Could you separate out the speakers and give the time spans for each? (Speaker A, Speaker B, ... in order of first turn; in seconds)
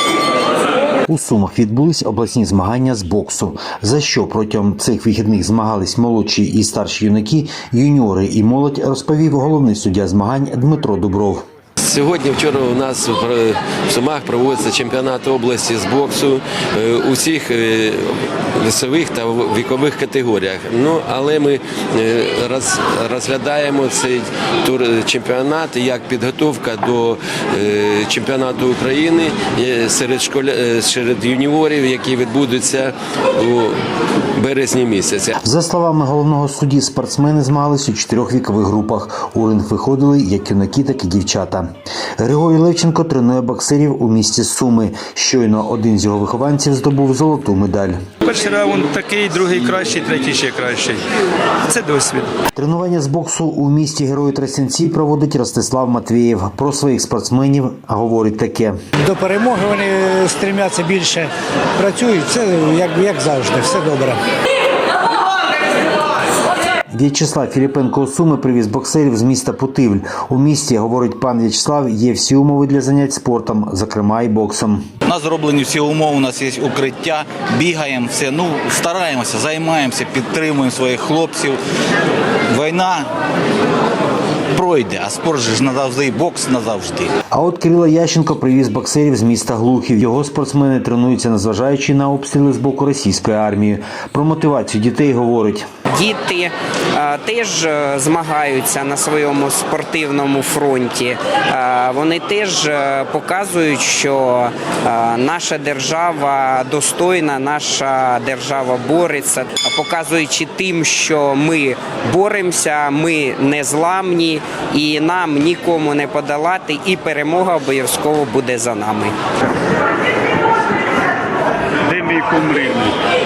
Speaker A: 1.1-11.4, 35.4-48.0, 52.5-58.8, 66.9-74.9, 87.3-95.6
Speaker B: 11.8-33.8, 34.4-35.4
Speaker C: 48.2-51.0, 51.7-52.3, 121.9-122.9
Speaker D: 59.0-64.2
Speaker E: 75.0-81.6, 82.5-83.1, 84.5-87.1
Speaker F: 95.9-119.1